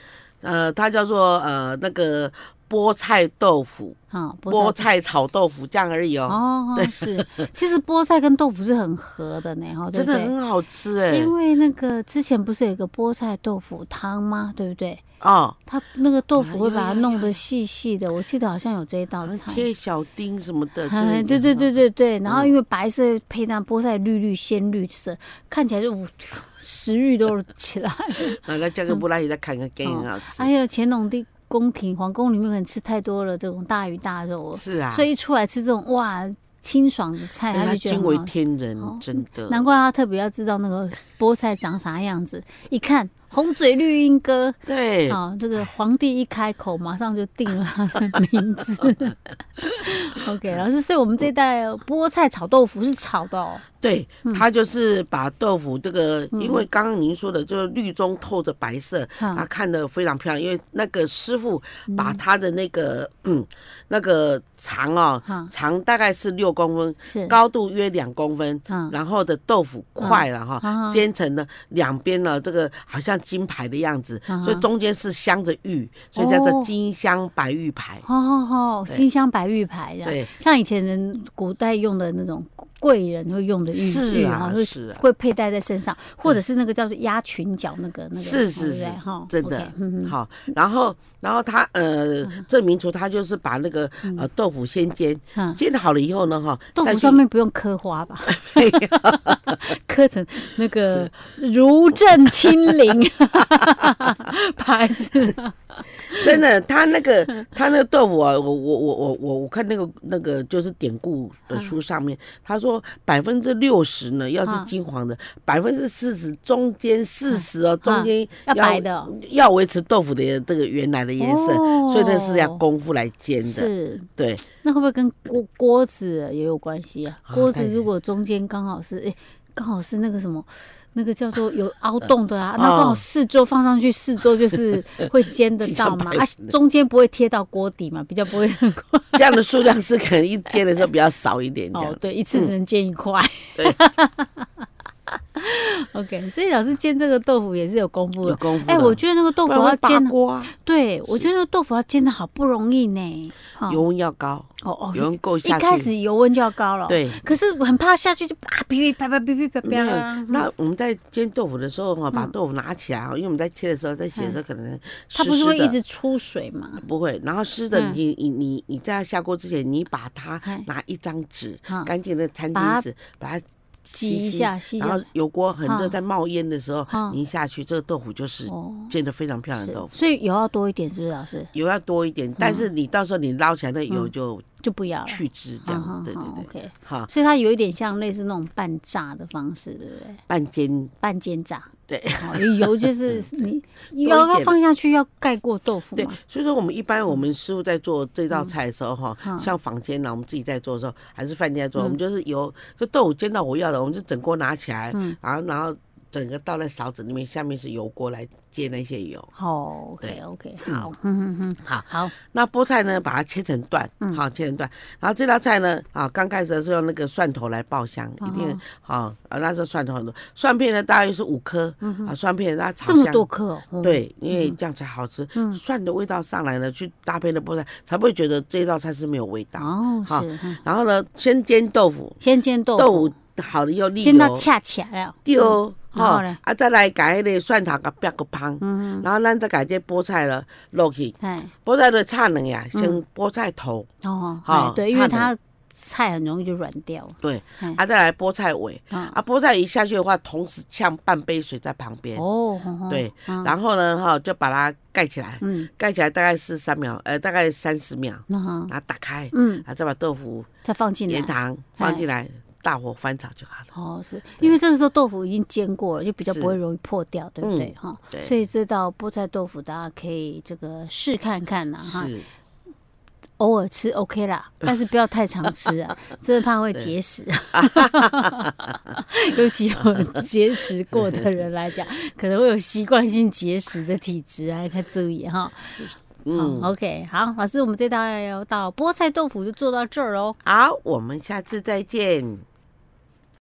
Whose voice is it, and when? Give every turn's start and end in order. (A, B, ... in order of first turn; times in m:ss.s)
0:00.4-0:04.0 A
0:04.1-0:04.8 B
0:04.5-0:07.5 A
0:06.3-0:10.3 B
0:09.9-0:11.3 A
0:11.1-0:15.0 B
0:15.2-0:15.6 A
0:15.7-0:19.6 B
0:16.3-0:17.4 A
0:19.2-0:21.7 A
0:20.9-0:29.0 B
0:22.2-0:22.5 A
0:28.4-0:30.5 A
0:29.8-0:49.2 B
0:34.6-0:35.1 A
0:37.5-0:39.6 A
0:44.7-0:45.2 A
0:49.7-0:53.6 B
0:53.8-1:18.0 A
0:56.3-0:56.6 B
0:59.2-0:59.4 B
1:01.9-1:02.2 B
1:05.3-1:05.5 B
1:07.0-1:07.3 B
1:08.7-1:08.9 B
1:10.0-1:11.0 B
1:14.3-1:14.6 B
1:16.2-1:16.7 B
1:18.0-1:30.1 B
1:20.0-1:20.3 A
1:23.7-1:25.0 A
1:28.2-1:37.2 A
1:35.3-1:35.6 B
1:36.8-1:46.3 B
1:38.3-1:39.6 A
1:46.1-2:04.4 A
1:57.3-1:59.1 B
2:01.2-2:02.6 B
2:03.4-2:19.4 B
2:07.3-2:07.8 A
2:12.5-2:13.0 A
2:15.6-2:16.5 A
2:19.1-2:22.5 A
2:21.7-2:24.5 B
2:25.3-2:33.8 B
2:28.2-2:30.5 A
2:33.7-2:35.9 A
2:34.6-2:40.4 B
2:36.9-2:37.3 A
2:39.6-2:45.8 A
2:45.1-2:46.8 B
2:46.8-2:59.9 A
2:47.7-2:48.0 B
2:52.5-2:52.8 B
2:53.9-2:55.0 B
2:55.6-2:55.9 B
2:56.9-2:57.2 B
2:58.4-2:58.9 B
2:59.6-3:01.5 B
3:01.5-3:04.4 A
3:02.4-3:02.7 B
3:04.6-3:10.2 B
3:05.0-3:07.1 A
3:10.3-3:10.9 A
3:11.0-3:16.2 B
3:11.9-3:13.5 A
3:14.0-3:14.6 A
3:16.0-3:29.3 A
3:19.2-3:19.5 B
3:29.4-3:32.1 B
3:30.0-3:30.9 A
3:31.6-3:43.3 A
3:38.2-3:38.6 B
3:41.8-3:42.1 B
3:42.8-3:44.6 B
3:43.8-3:52.2 A
3:45.3-3:45.6 B
3:49.6-3:50.6 B
3:52.2-3:53.1 B
3:52.8-3:54.5 A
3:54.0-3:56.4 B
3:55.2-4:03.9 A
3:58.6-3:59.0 B
4:01.2-4:01.5 B
4:02.7-4:03.0 B
4:04.0-4:07.8 B
4:04.4-4:05.3 A
4:07.2-4:12.2 A
4:08.9-4:09.2 B
4:12.1-4:13.5 B
4:12.9-4:20.5 A
4:15.4-4:15.7 B
4:18.3-4:18.7 B
4:19.3-4:19.6 B
4:20.6-4:22.0 B
4:21.1-4:23.7 A
4:23.7-4:32.1 B
4:26.2-4:26.6 A
4:27.4-4:28.3 A
4:31.8-4:32.2 A
4:33.4-4:50.4 B
4:37.5-4:38.8 A
4:39.8-4:40.2 A
4:40.9-4:41.4 A
4:45.8-4:46.7 A
4:50.4-4:52.4 A